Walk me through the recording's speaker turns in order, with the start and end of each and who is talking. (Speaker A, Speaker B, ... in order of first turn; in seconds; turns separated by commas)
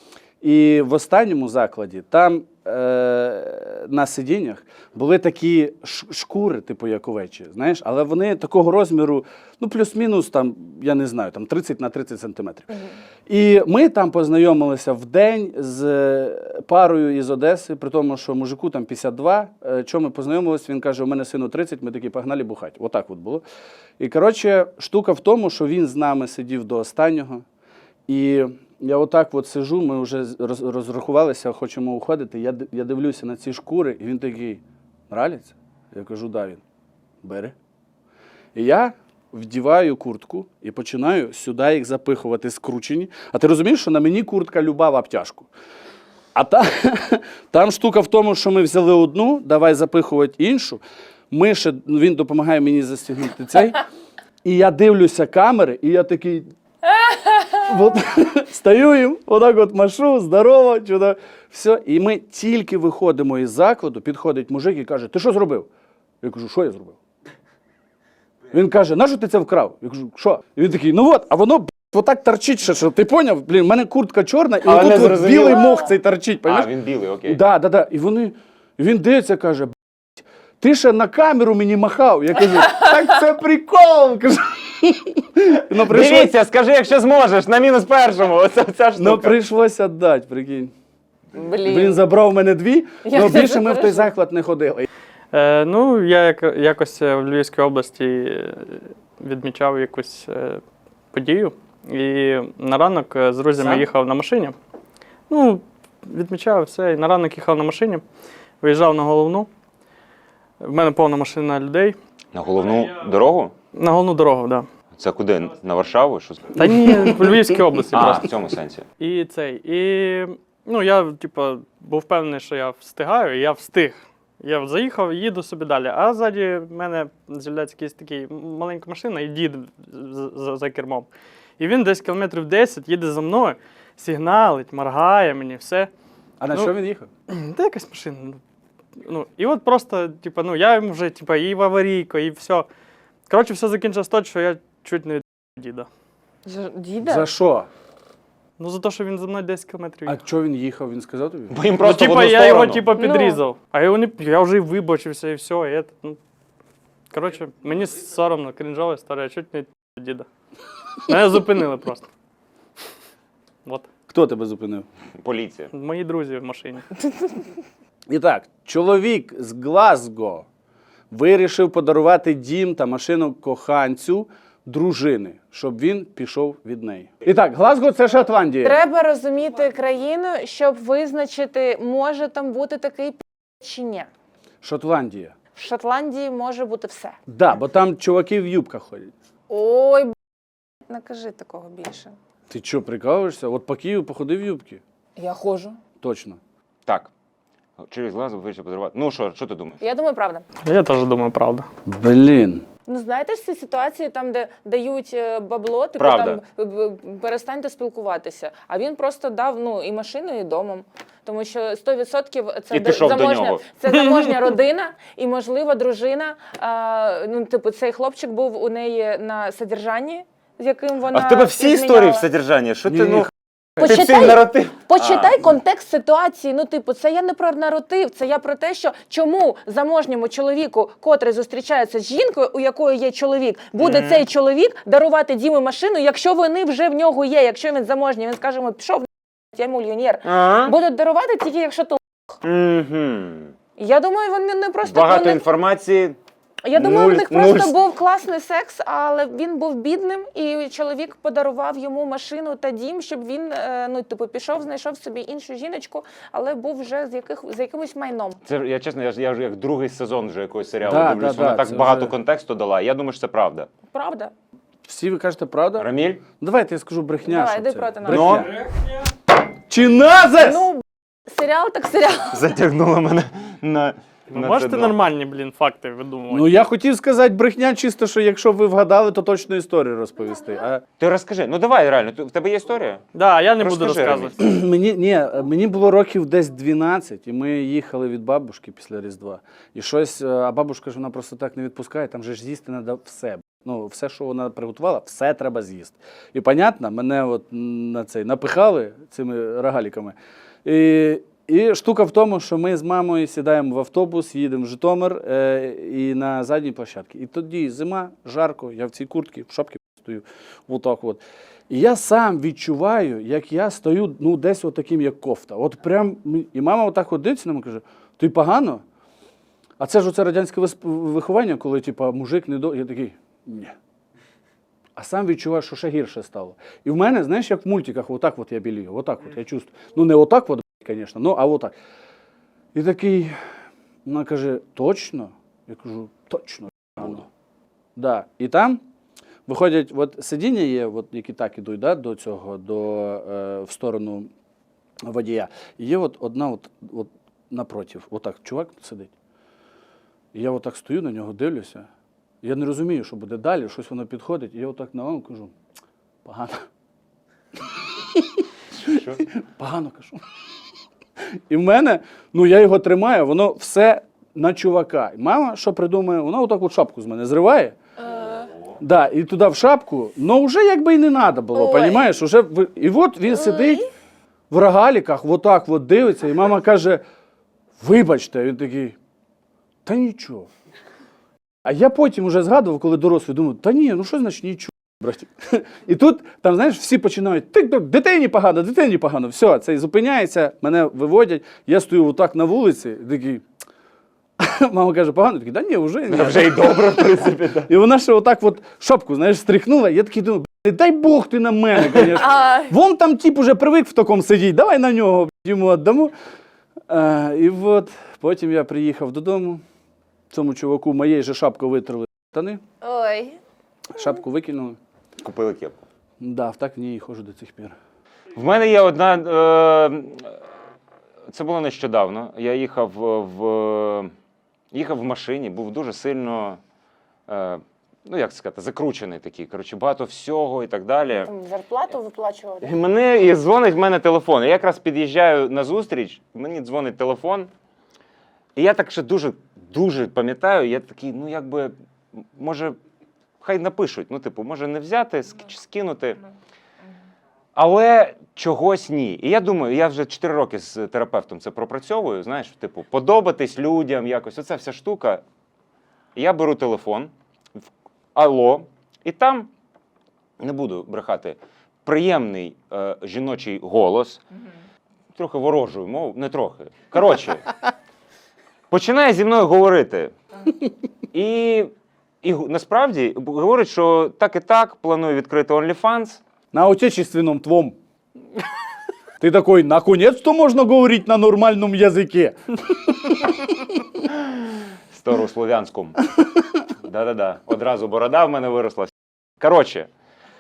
Speaker A: 0.4-23.4, Speaker A: 24.0-27.4, Speaker A: 28.1-36.6, Speaker A: 37.2-37.5, Speaker A: 38.5-45.5, Speaker A: 46.4-53.8, Speaker A: 54.4-56.5, Speaker A: 57.7-65.7, Speaker A: 66.2-67.0, Speaker A: 68.5-76.7, Speaker B: 74.6-75.9, Speaker B: 76.5-77.4, Speaker A: 77.2-86.3, Speaker B: 85.8-89.4, Speaker A: 89.0-90.7, Speaker C: 91.3-92.0, Speaker A: 91.7-94.9, Speaker C: 93.0-94.1, Speaker D: 95.3-100.6, Speaker D: 101.1-104.6, Speaker A: 103.6-103.8, Speaker D: 105.3-108.0, Speaker D: 108.6-109.5, Speaker D: 110.6-112.0, Speaker B: 112.3-113.5, Speaker D: 113.7-114.7, Speaker B: 115.0-116.6, Speaker D: 116.6-118.3, Speaker A: 116.6-117.2, Speaker B: 117.9-118.8, Speaker D: 119.0-131.1, Speaker D: 131.6-135.9, Speaker A: 136.4-137.1, Speaker D: 137.3-138.4, Speaker D: 139.0-142.7, Speaker D: 143.3-145.9, Speaker C: 146.4-147.3, Speaker A: 147.0-147.7, Speaker D: 148.6-150.2, Speaker A: 150.1-151.6, Speaker B: 151.5-152.9, Speaker D: 151.8-156.2, Speaker C: 153.0-153.4, Speaker D: 157.1-160.3, Speaker D: 161.0-162.1, Speaker A: 164.1-164.9, Speaker B: 165.2-165.7, Speaker D: 165.7-166.9, Speaker A: 168.1-170.5, Speaker A: 171.1-178.8, Speaker C: 178.6-184.1, Speaker A: 184.6-185.3, Speaker C: 185.6-187.2, Speaker A: 187.3-189.1, Speaker C: 189.5-190.2, Speaker C: 190.9-192.2, Speaker A: 192.5-194.8, Speaker C: 195.2-195.8, Speaker A: 196.0-196.4, Speaker B: 196.9-197.1, Speaker B: 197.8-199.8, Speaker C: 199.8-200.4, Speaker D: 200.6-201.7, Speaker A: 201.9-202.7, Speaker C: 202.9-222.3, Speaker B: 206.0-206.4, Speaker B: 212.7-213.6, Speaker B: 221.1-225.3, Speaker A: 222.9-223.3, Speaker C: 223.8-242.4, Speaker B: 233.8-234.2, Speaker B: 240.2-240.7, Speaker B: 242.4-243.5, Speaker C: 243.8-245.4, Speaker B: 244.8-246.2, Speaker C: 246.6-258.4, Speaker B: 246.8-247.7, Speaker B: 258.4-263.7, Speaker A: 260.8-262.1, Speaker C: 263.9-264.3, Speaker A: 264.9-268.5, Speaker B: 265.8-266.2, Speaker C: 267.2-268.4, Speaker B: 268.1-268.5, Speaker A: 269.7-270.7, Speaker C: 270.4-272.4, Speaker B: 272.3-274.9, Speaker D: 274.3-276.5, Speaker A: 276.3-280.8, Speaker B: 281.0-283.0, Speaker D: 283.1-284.4, Speaker B: 283.6-284.4, Speaker A: 284.4-318.8, Speaker A: 319.8-323.8, Speaker A: 325.0-331.7, Speaker A: 332.7-333.4, Speaker A: 334.1-337.3, Speaker A: 338.0-338.8, Speaker A: 339.5-344.3, Speaker A: 345.0-349.1, Speaker A: 350.3-351.9, Speaker A: 352.4-355.5, Speaker A: 356.2-356.6, Speaker A: 358.0-358.4, Speaker B: 358.7-359.3, Speaker A: 359.2-360.2, Speaker A: 361.2-367.8, Speaker C: 368.1-368.5, Speaker A: 368.8-373.8, Speaker C: 371.6-372.1, Speaker C: 373.3-373.9, Speaker A: 374.5-377.0, Speaker A: 377.8-379.0, Speaker A: 379.9-380.5, Speaker A: 381.6-393.4, Speaker A: 394.4-406.1, Speaker B: 396.1-397.7, Speaker C: 402.1-402.7, Speaker A: 406.9-409.6, Speaker A: 410.3-412.6, Speaker C: 412.8-413.4, Speaker A: 413.9-414.8, Speaker B: 415.2-415.8, Speaker A: 416.2-417.8, Speaker B: 418.4-420.3, Speaker B: 421.3-424.1, Speaker B: 424.7-426.6, Speaker B: 427.3-431.3, Speaker C: 431.2-432.7, Speaker B: 432.6-437.5, Speaker B: 438.6-442.8, Speaker B: 443.4-446.2, Speaker B: 447.6-455.2, Speaker B: 456.2-457.1, Speaker B: 458.1-459.5, Speaker B: 460.4-464.2, Speaker B: 465.1-467.4, Speaker B: 468.7-470.1, Speaker B: 471.1-476.2, Speaker A: 476.5-477.8, Speaker A: 479.2-483.7, Speaker B: 484.0-486.0, Speaker B: 486.8-489.9